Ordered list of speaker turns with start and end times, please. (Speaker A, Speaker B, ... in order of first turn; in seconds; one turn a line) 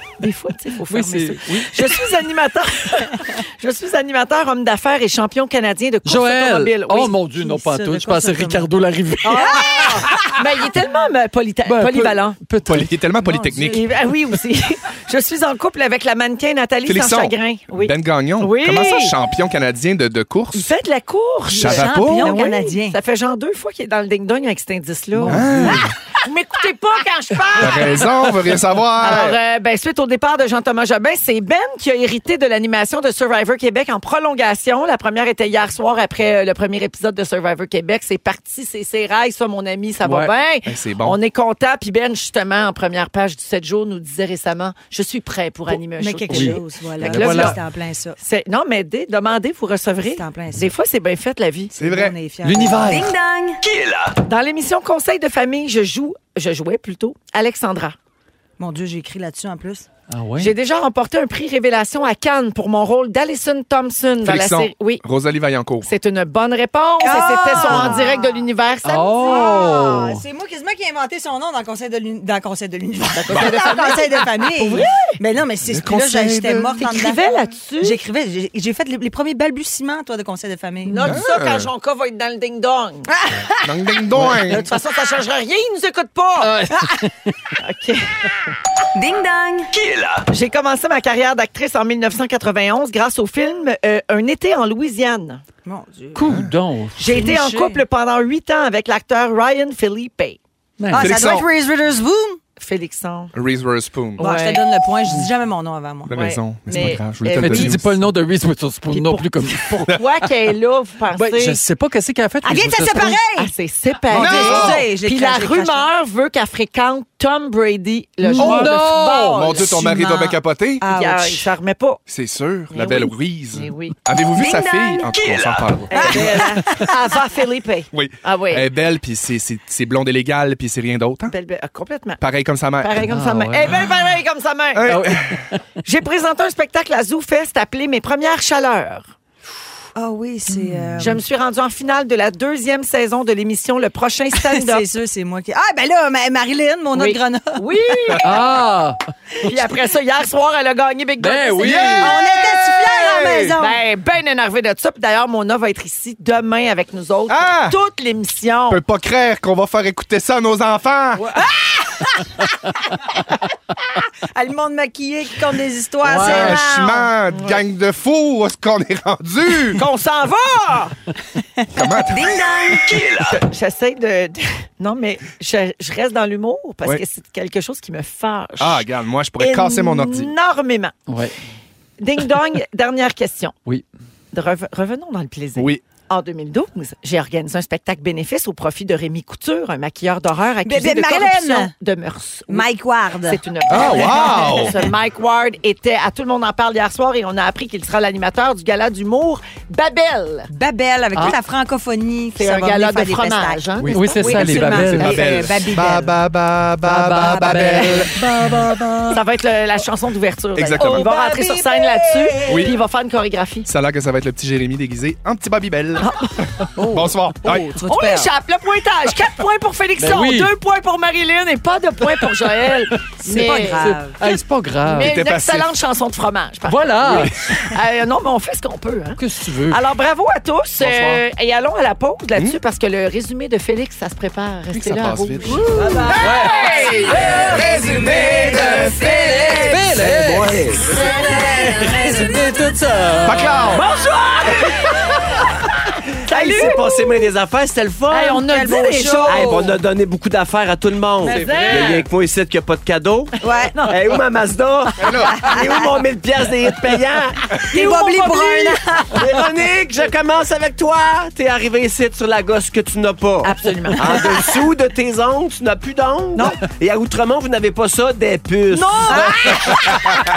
Speaker A: 0.2-7.2
Speaker B: 0.9-2.0
Speaker B: 6.0-10.1
Speaker C: 7.3-8.7
Speaker A: 9.2-12.4
Speaker C: 9.5-10.2
Speaker B: 11.6-13.0
Speaker D: 12.7-13.8
Speaker C: 13.2-13.9
Speaker A: 13.7-19.1
Speaker D: 16.9-20.7
Speaker A: 20.5-28.2
Speaker D: 21.5-22.4
Speaker C: 21.5-23.0
Speaker B: 25.1-25.9
Speaker D: 25.3-25.9
Speaker D: 27.5-29.4
Speaker A: 29.0-47.6
Speaker B: 40.0-40.3
Speaker D: 40.6-41.2
Speaker C: 45.7-48.2
Speaker B: 46.3-47.6
Speaker A: 48.2-51.7
Speaker C: 50.1-50.7
Speaker C: 51.7-53.1
Speaker D: 51.8-52.1
Speaker B: 52.4-53.1
Speaker E: 52.7-53.6
Speaker F: 53.6-54.1
Speaker A: 54.2-58.0
Speaker C: 58.6-59.9
Speaker B: 60.1-60.5
Speaker A: 60.4-65.0
Speaker D: 64.2-65.9
Speaker A: 65.8-69.6
Speaker C: 67.0-68.5
Speaker B: 67.6-67.9
Speaker B: 68.8-70.2
Speaker C: 69.2-81.2
Speaker A: 73.1-75.2
Speaker D: 73.3-73.7
Speaker D: 75.7-76.8
Speaker A: 76.7-78.0
Speaker A: 80.8-83.2
Speaker D: 81.0-81.7
Speaker C: 83.1-84.3
Speaker D: 83.6-84.7
Speaker A: 84.3-86.6
Speaker B: 86.4-87.5
Speaker A: 87.6-88.4
Speaker E: 88.9-89.7
Speaker F: 89.7-90.2
Speaker A: 90.3-95.4
Speaker C: 95.6-96.5
Speaker B: 96.1-97.2
Speaker D: 96.2-96.5
Speaker A: 97.0-100.4
Speaker C: 97.1-97.8
Speaker B: 100.8-101.3
Speaker C: 100.9-102.4
Speaker D: 100.9-101.5
Speaker A: 102.6-103.3
Speaker D: 103.3-104.3
Speaker A: 104.2-104.6
Speaker C: 104.2-106.3
Speaker D: 106.1-108.0
Speaker A: 106.1-107.8
Speaker B: 107.3-109.9
Speaker A: 108.9-111.6
Speaker B: 111.1-113.2
Speaker C: 112.4-113.5
Speaker A: 113.3-119.7
Speaker C: 114.0-115.9
Speaker D: 114.1-114.8
Speaker C: 118.2-118.7
Speaker B: 118.3-119.5
Speaker D: 119.3-120.8
Speaker C: 119.5-121.5
Speaker A: 120.9-122.0
Speaker D: 122.1-126.5
Speaker A: 122.7-124.0
Speaker E: 124.3-125.1
Speaker F: 125.1-125.7
Speaker A: 125.9-128.6
Speaker C: 125.9-127.0
Speaker D: 127.9-131.3
Speaker A: 131.3-132.2
Speaker D: 132.2-133.0
Speaker A: 132.8-135.2
Speaker B: 133.0-133.9
Speaker D: 134.7-135.4
Speaker B: 134.8-135.6
Speaker A: 135.8-139.1
Speaker C: 139.9-141.2
Speaker B: 140.5-141.2
Speaker A: 141.0-144.8
Speaker C: 144.3-148.2
Speaker A: 146.9-148.4
Speaker B: 148.2-149.0
Speaker A: 149.4-152.2
Speaker B: 151.2-152.2
Speaker D: 151.7-153.5
Speaker C: 151.8-153.8
Speaker A: 153.6-158.8
Speaker D: 157.3-157.8
Speaker D: 158.7-161.3
Speaker A: 161.2-161.4
Speaker C: 161.4-162.4
Speaker C: 164.3-167.1
Speaker A: 166.2-166.6
Speaker D: 166.2-169.8
Speaker B: 166.2-166.6
Speaker A: 167.3-167.6
Speaker A: 169.7-170.9
Speaker D: 171.7-172.4
Speaker E: 172.1-173.0
Speaker F: 172.8-173.4
Speaker A: 173.2-178.9
Speaker D: 178.6-180.3
Speaker A: 179.4-181.0
Speaker B: 181.1-181.3
Speaker A: 182.0-183.5
Speaker A: 184.3-192.7
Speaker D: 185.6-185.8
Speaker C: 190.6-191.7
Speaker C: 192.5-194.5
Speaker A: 193.2-200.5
Speaker D: 193.7-194.9
Speaker C: 200.5-206.2
Speaker A: 202.4-205.2
Speaker B: 203.8-205.2
Speaker D: 204.8-208.2
Speaker B: 206.8-209.2
Speaker C: 207.0-208.1
Speaker A: 209.1-213.7
Speaker D: 210.6-211.1
Speaker C: 210.7-212.7
Speaker D: 212.4-212.8
Speaker D: 213.7-216.3
Speaker A: 216.0-216.3
Speaker B: 216.7-217.1
Speaker D: 216.9-217.7
Speaker C: 217.4-218.3
Speaker A: 217.4-237.1
Speaker B: 220.0-220.5
Speaker B: 222.1-225.2
Speaker C: 223.2-224.2
Speaker D: 224.9-225.7
Speaker B: 226.7-227.4
Speaker B: 229.2-229.8
Speaker B: 230.8-231.2
Speaker D: 234.7-235.8
Speaker B: 235.6-243.8
Speaker F: 235.7-241.0
Speaker D: 237.4-239.1
Speaker C: 240.9-242.4
Speaker D: 243.2-243.8
Speaker A: 243.7-244.8
Speaker F: 243.7-244.9
Speaker A: 246.2-247.2
Speaker F: 246.2-248.5
Speaker A: 248.1-249.7
Speaker C: 248.4-249.8
Speaker F: 249.2-253.3
Speaker A: 251.2-252.0
Speaker B: 251.2-252.0
Speaker C: 253.4-253.8
Speaker A: 253.7-254.0
Speaker F: 253.9-257.6
Speaker D: 255.0-255.4
Speaker C: 255.4-255.7
Speaker C: 257.6-259.4
Speaker A: 257.7-258.8
Speaker F: 259.1-269.4
Speaker A: 263.4-264.4
Speaker A: 268.7-269.9
Speaker B: 269.1-269.9